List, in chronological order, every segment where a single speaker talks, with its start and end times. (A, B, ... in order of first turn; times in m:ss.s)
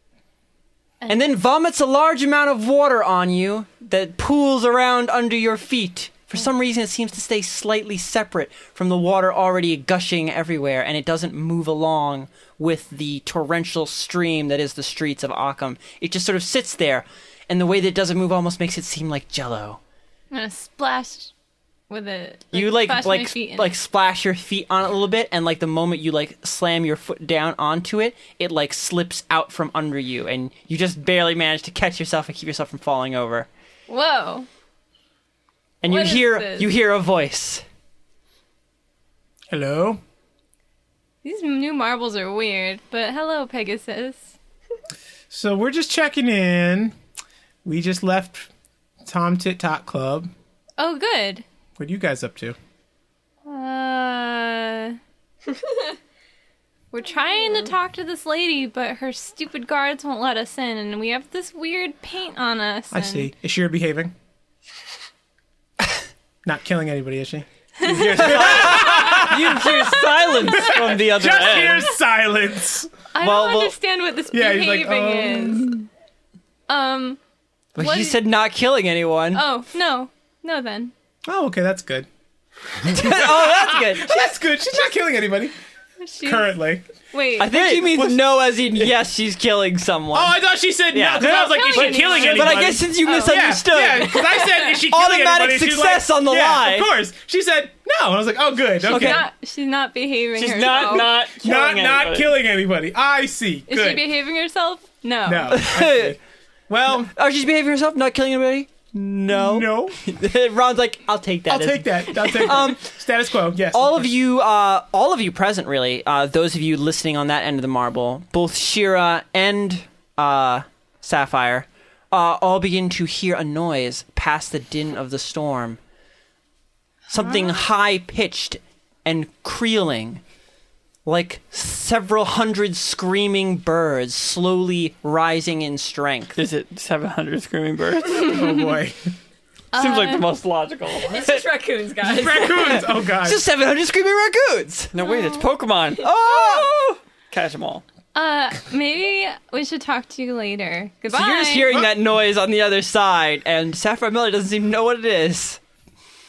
0:01.0-0:01.4 A
0:01.1-0:19.8 B
0:20.3-0:21.3 A
0:21.9-0:23.8 A
0:22.5-0:33.5 B
0:33.9-0:34.5 A
0:35.8-0:37.6 B
0:35.8-0:36.7 A
0:39.5-0:40.0 C
0:41.2-0:44.3 A
0:45.3-0:47.0 C
0:47.6-0:48.5 C
0:49.0-0:50.3 C
0:50.8-0:51.4 A
0:51.8-0:52.6 C
0:53.5-0:55.0 A
0:55.5-0:55.8 D
0:56.9-1:03.3 A
1:02.9-1:04.1 C
1:06.4-1:09.5 C
1:07.8-1:10.8 A
1:07.8-1:11.8 B
1:10.5-1:12.9 C
1:10.5-1:11.8 E
1:11.6-1:12.0 A
1:13.1-1:15.7 A
1:13.2-1:13.7 B
1:14.3-1:15.9 C
1:16.7-1:17.2 A
1:17.8-1:19.4 B
1:17.8-1:18.2 A
1:19.3-1:20.9 A
1:21.3-1:22.1 C
1:22.9-1:24.3 B
1:22.9-1:25.5 C
1:26.0-1:28.1 A
1:26.2-1:26.8 C
1:27.4-1:30.4 B
1:27.5-1:28.3 E
1:30.1-1:39.3 C
1:30.9-1:34.3 B
1:31.2-1:34.8 A
1:34.8-1:36.9 B
1:38.8-1:41.2 A
1:38.8-1:39.2 B
1:40.4-1:42.4 E
1:41.2-1:44.1 C
1:43.7-1:45.7 A
1:45.3-1:47.1 C
1:45.5-1:46.2 B
1:47.0-1:52.9 B
1:49.3-1:50.0 C
1:51.5-1:54.1 C
1:53.7-2:05.8 B
2:07.1-2:10.2 B
2:11.1-2:16.4 B
2:16.4-2:18.4 E
2:18.2-2:19.1 C
2:18.3-2:18.8 A
2:19.7-2:20.3 A
2:19.8-2:21.2 E
2:21.1-2:22.8 D
2:22.0-2:23.4 C
2:23.2-2:24.9 B
2:24.9-2:26.1 E
2:25.0-2:25.5 A
2:26.0-2:27.0 B
2:27.3-2:27.8 E
2:28.1-2:31.7 A
2:31.1-2:35.6 B